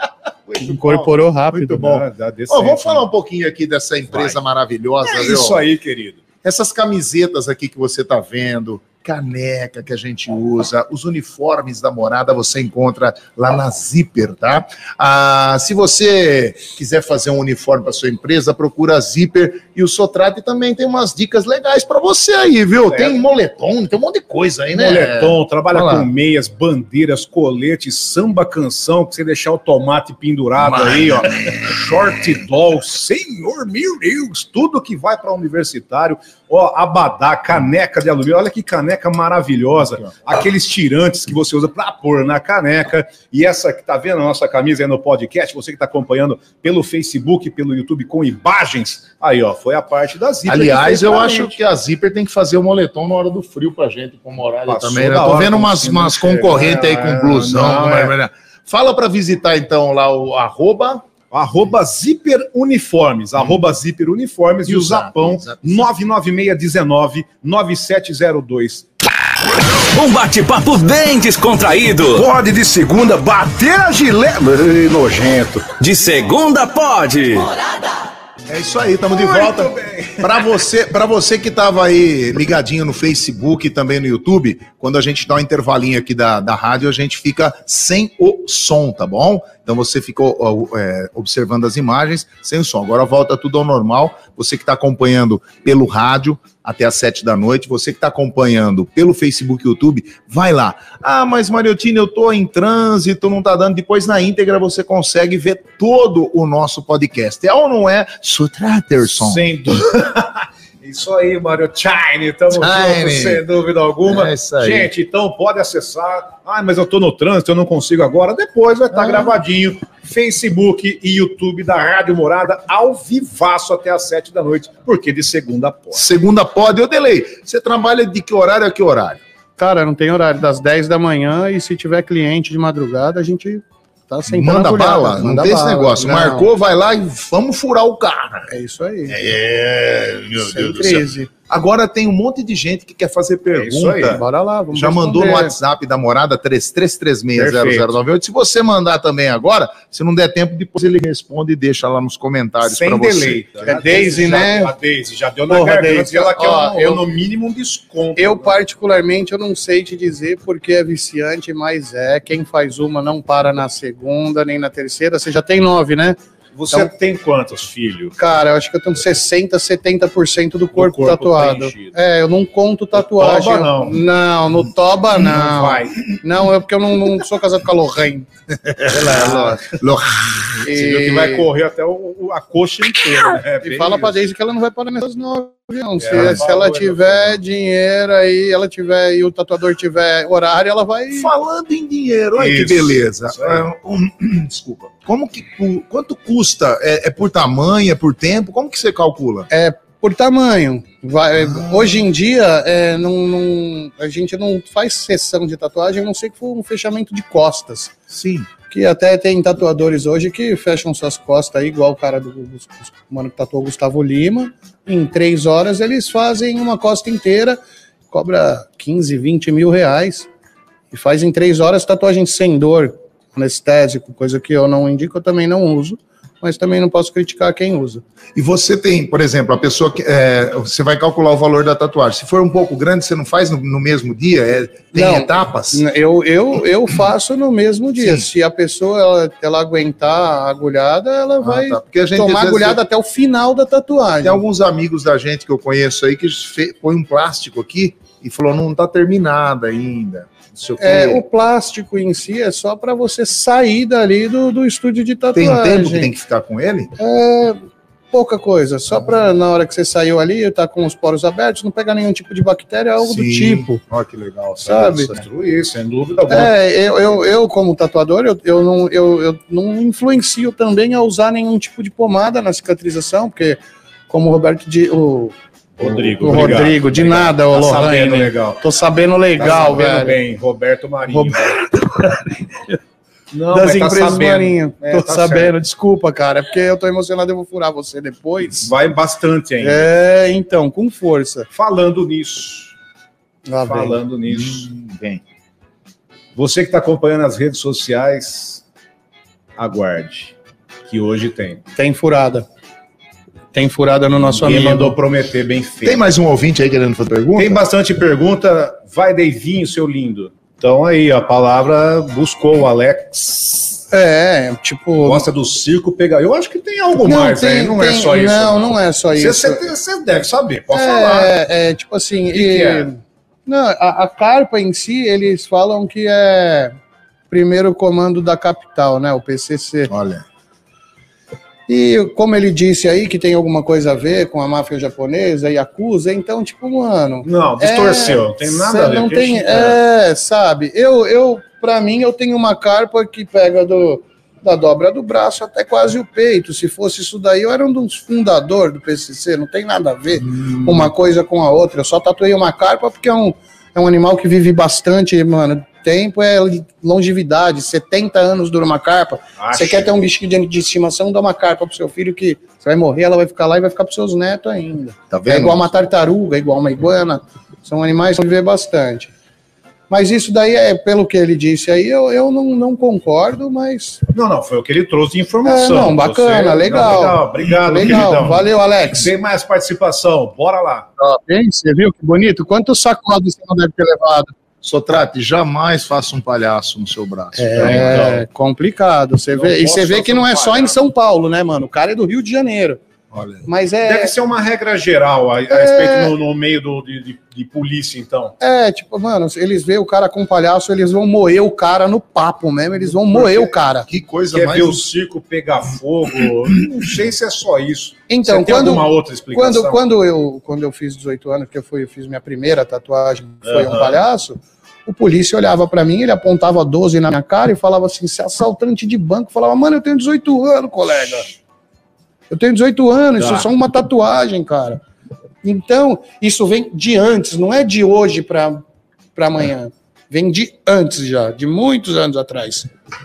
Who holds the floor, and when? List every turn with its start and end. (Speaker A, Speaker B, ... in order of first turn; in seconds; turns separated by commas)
Speaker A: 0.5-3.1, Speaker B: 0.6-2.0, Speaker C: 2.5-5.7, Speaker A: 4.1-4.4, Speaker A: 5.0-6.2, Speaker C: 6.4-26.1, Speaker A: 22.9-23.2, Speaker A: 24.7-51.6, Speaker C: 30.6-31.8, Speaker C: 50.5-61.0, Speaker A: 54.7-58.1, Speaker A: 61.3-68.9, Speaker C: 64.7-65.9, Speaker D: 69.8-72.3, Speaker A: 72.2-75.7, Speaker D: 75.7-77.5, Speaker C: 78.5-109.5, Speaker A: 79.1-80.4, Speaker A: 109.0-126.0, Speaker C: 112.5-113.5, Speaker C: 114.0-114.9, Speaker C: 125.9-129.2, Speaker B: 129.6-136.5, Speaker C: 134.3-138.5, Speaker B: 138.5-139.2, Speaker C: 139.1-153.7, Speaker B: 140.4-141.3, Speaker A: 143.5-144.2, Speaker B: 144.1-145.5, Speaker A: 147.4-147.9, Speaker A: 152.6-158.6, Speaker B: 153.7-154.7, Speaker B: 155.5-157.0, Speaker B: 158.2-166.2, Speaker A: 166.6-168.2, Speaker B: 168.2-178.3, Speaker A: 170.7-171.9, Speaker A: 173.0-174.0, Speaker A: 175.2-176.2, Speaker C: 178.7-180.6, Speaker A: 179.1-179.6, Speaker B: 180.6-181.5, Speaker A: 180.7-184.2, Speaker B: 183.6-191.3, Speaker A: 186.0-187.4, Speaker C: 186.1-186.4, Speaker C: 191.1-199.5, Speaker A: 192.4-193.6, Speaker B: 199.5-207.9, Speaker C: 201.4-202.0, Speaker C: 208.1-208.5, Speaker B: 208.7-217.6, Speaker B: 218.1-220.3, Speaker B: 220.9-228.0, Speaker C: 228.3-235.8, Speaker B: 234.9-244.4, Speaker C: 238.0-238.3, Speaker C: 241.4-242.8, Speaker C: 244.2-251.2, Speaker B: 250.8-256.1, Speaker C: 255.3-256.9, Speaker B: 257.0-263.8, Speaker C: 263.0-265.2, Speaker B: 264.6-265.1, Speaker A: 264.9-266.5, Speaker B: 266.3-280.2, Speaker A: 275.8-278.6, Speaker A: 279.4-281.6, Speaker B: 281.1-282.3, Speaker A: 283.3-285.5, Speaker B: 283.5-288.7, Speaker A: 288.6-289.9, Speaker B: 289.6-291.5, Speaker A: 291.5-292.7, Speaker B: 293.5-294.0, Speaker A: 293.6-294.7, Speaker C: 294.3-295.2, Speaker A: 296.4-298.6, Speaker A: 299.6-300.4, Speaker A: 300.9-301.6, Speaker B: 301.8-302.5, Speaker B: 303.5-305.0, Speaker A: 304.3-306.0, Speaker C: 305.8-307.6, Speaker A: 307.4-313.8, Speaker B: 313.9-315.3, Speaker A: 315.0-321.3, Speaker B: 317.0-319.7, Speaker B: 320.7-326.8, Speaker A: 322.3-322.9, Speaker B: 327.3-329.9, Speaker C: 329.9-330.2, Speaker B: 331.7-369.1, Speaker A: 337.2-339.8, Speaker C: 350.3-350.7, Speaker A: 359.4-359.9, Speaker C: 365.1-365.6, Speaker B: 369.9-374.0, Speaker A: 374.1-380.9, Speaker B: 375.4-379.1, Speaker B: 381.0-384.3, Speaker C: 384.6-388.1, Speaker B: 387.4-392.8, Speaker A: 387.6-388.2, Speaker A: 389.3-390.8, Speaker C: 393.1-393.5, Speaker B: 393.4-394.1, Speaker A: 393.9-398.4, Speaker B: 395.5-396.1, Speaker B: 398.4-403.9, Speaker C: 403.1-404.9, Speaker A: 404.3-409.8, Speaker B: 408.1-421.4, Speaker A: 413.5-414.0, Speaker B: 422.3-424.8, Speaker A: 423.2-423.5, Speaker B: 425.4-428.6, Speaker B: 429.2-432.7